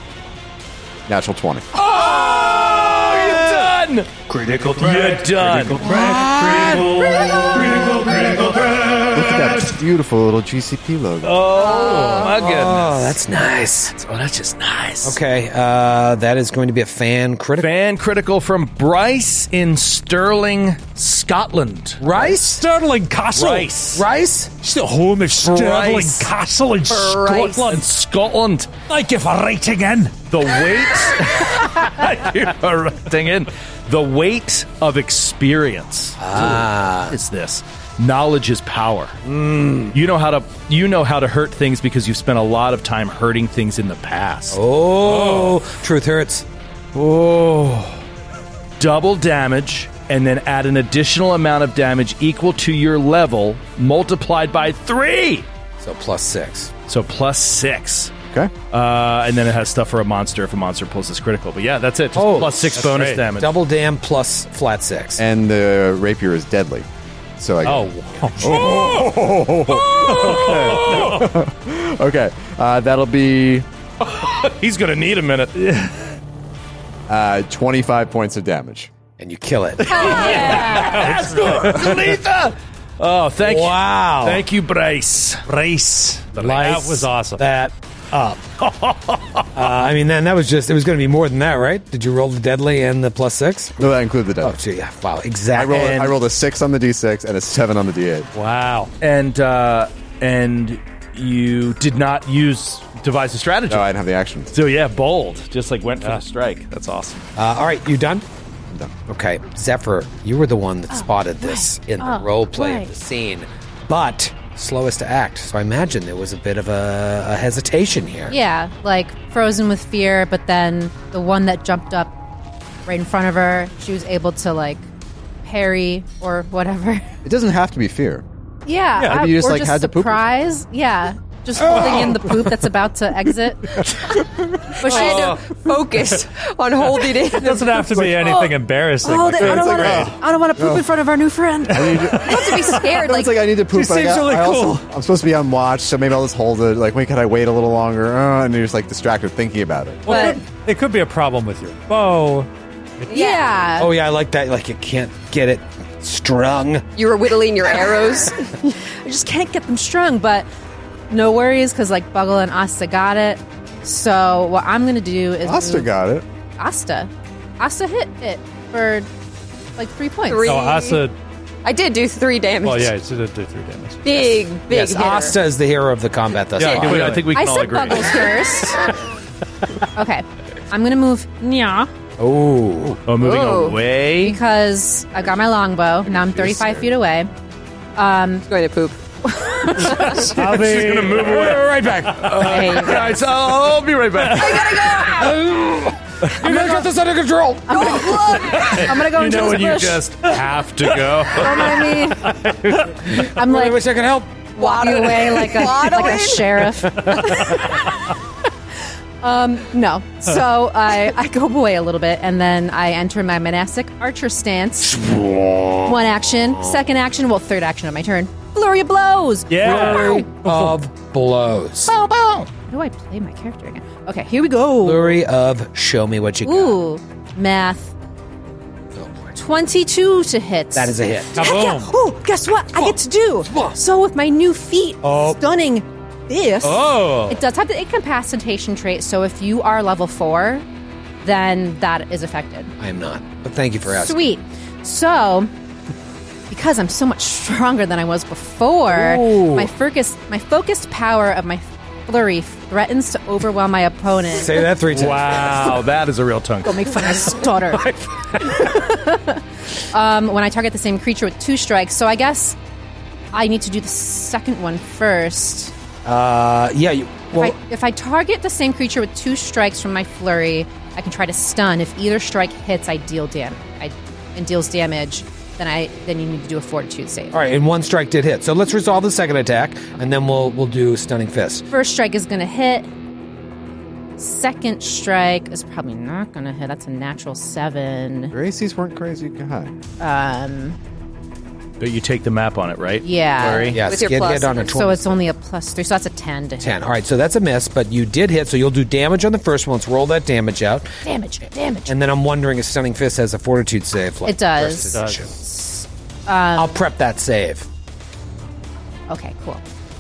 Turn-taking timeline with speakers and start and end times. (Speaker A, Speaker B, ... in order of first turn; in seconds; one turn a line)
Speaker A: 1.1-1.7
Speaker B: 1.7-9.2
Speaker C: 5.8-7.7
Speaker A: 9.1-11.5
Speaker B: 11.2-13.2
Speaker D: 11.5-12.4
Speaker C: 12.0-13.9
Speaker B: 13.9-15.2
Speaker C: 15.0-17.7
Speaker B: 17.6-22.0
Speaker C: 22.0-22.6
Speaker E: 22.1-24.0
Speaker B: 23.4-24.0
Speaker C: 23.9-24.5
Speaker E: 24.6-27.8
Speaker B: 25.4-26.3
Speaker B: 26.9-28.7
Speaker D: 26.9-27.7
Speaker E: 28.9-30.3
Speaker B: 30.3-39.2
Speaker C: 36.2-37.2
Speaker C: 39.2-40.0
Speaker B: 39.9-44.6
Speaker C: 44.5-48.0
Speaker E: 45.0-45.6
Speaker B: 48.8-55.5
Speaker C: 55.8-56.7
Speaker B: 56.9-58.1
Speaker B: 58.7-63.6
Speaker C: 62.1-65.2
Speaker E: 62.8-63.2
Speaker A: 65.2-66.9
Speaker A: 67.4-73.7
Speaker E: 67.7-69.0
Speaker B: 69.8-71.1
Speaker E: 70.1-71.2
Speaker B: 74.0-75.6
Speaker E: 75.6-75.9
Speaker A: 77.1-78.9
Speaker C: 79.2-80.8
Speaker B: 79.9-85.4
Speaker D: 79.9-80.8
Speaker F: 80.2-80.8
Speaker E: 80.8-81.9
Speaker C: 83.4-84.4
Speaker E: 85.5-87.4
Speaker B: 86.4-86.8
Speaker C: 86.4-88.4
Speaker B: 88.6-89.5
Speaker C: 89.5-93.9
Speaker A: 93.8-94.6
Speaker C: 94.4-96.2
Speaker A: 95.5-98.3
Speaker E: 98.3-98.9
Speaker B: 99.0-103.9
Speaker A: 103.7-104.5
Speaker B: 104.5-107.3
Speaker C: 107.4-108.2
Speaker C: 109.1-118.4
Speaker F: 110.9-112.9
Speaker F: 118.3-122.1
Speaker F: 122.9-124.9
Speaker F: 125.4-127.1
Speaker A: 127.2-128.2
Speaker F: 128.7-133.9
Speaker A: 129.1-130.3
Speaker E: 131.8-132.1
Speaker F: 134.8-135.3
Speaker E: 134.8-135.6
Speaker D: 134.8-137.6
Speaker E: 137.4-140.2
Speaker A: 137.9-138.4
Speaker F: 139.0-141.8
Speaker A: 139.4-140.9
Speaker E: 141.7-143.0
Speaker A: 141.7-150.1
Speaker D: 142.2-143.4
Speaker E: 143.7-144.9
Speaker E: 150.1-152.5
Speaker D: 150.1-150.4
Speaker F: 150.1-150.4
Speaker D: 153.1-153.5
Speaker F: 153.1-153.9
Speaker C: 153.8-156.9
Speaker D: 157.0-158.4
Speaker F: 158.6-160.5
Speaker F: 161.1-165.9
Speaker A: 165.4-166.3
Speaker F: 166.6-169.1
Speaker F: 169.8-170.6
Speaker D: 170.3-171.0
Speaker E: 170.4-171.2
Speaker D: 171.7-172.9
Speaker E: 172.6-174.2
Speaker D: 174.0-175.4
Speaker C: 174.7-177.2
Speaker E: 176.6-177.3
Speaker B: 176.6-178.3
Speaker F: 177.3-178.8
Speaker F: 179.9-181.9
Speaker C: 182.2-183.0
Speaker B: 183.1-184.4
Speaker D: 183.2-183.8
Speaker F: 184.2-187.3
Speaker A: 186.1-186.8
Speaker F: 188.0-188.5
Speaker D: 188.5-189.0
Speaker F: 189.3-190.2
Speaker E: 189.9-191.2
Speaker C: 190.3-192.7
Speaker B: 190.3-195.0
Speaker F: 192.4-193.2
Speaker D: 194.3-195.3
Speaker C: 195.1-198.7
Speaker F: 196.4-196.8
Speaker F: 197.7-200.0
Speaker D: 197.7-198.6
Speaker B: 198.6-201.8
Speaker F: 201.4-202.4
Speaker C: 203.1-206.3
Speaker F: 203.3-203.8
Speaker D: 204.6-206.6
Speaker F: 204.6-207.8
Speaker F: 209.2-215.0
Speaker C: 214.9-216.0
Speaker F: 215.8-220.3
Speaker E: 219.5-220.8
Speaker C: 219.6-221.9
Speaker F: 221.9-225.2
Speaker C: 224.8-226.8
Speaker F: 226.4-227.9
Speaker F: 229.3-240.7
Speaker C: 230.7-231.7
Speaker E: 231.4-231.9
Speaker C: 233.5-233.8
Speaker C: 235.0-235.4
Speaker E: 236.6-237.4
Speaker F: 241.2-242.7
Speaker C: 242.8-244.3
Speaker F: 243.9-245.5
Speaker F: 246.5-254.7
Speaker C: 248.9-249.7
Speaker C: 254.3-255.8
Speaker B: 254.9-257.0
Speaker F: 256.6-257.9
Speaker C: 257.9-258.6
Speaker F: 258.4-262.6
Speaker F: 263.3-265.7
Speaker C: 266.1-267.6
Speaker F: 267.4-277.4
Speaker C: 277.3-281.7
Speaker F: 281.7-282.9
Speaker F: 284.2-288.4
Speaker A: 288.3-289.7
Speaker F: 290.0-290.8
Speaker B: 291.8-293.8
Speaker F: 293.0-293.8
Speaker D: 293.4-294.8
Speaker C: 293.7-295.3
Speaker F: 294.7-296.8
Speaker C: 296.6-301.0
Speaker F: 301.0-301.9
Speaker C: 301.9-305.3
Speaker F: 304.2-306.8
Speaker E: 304.9-305.2
Speaker C: 306.6-307.7
Speaker F: 309.1-309.6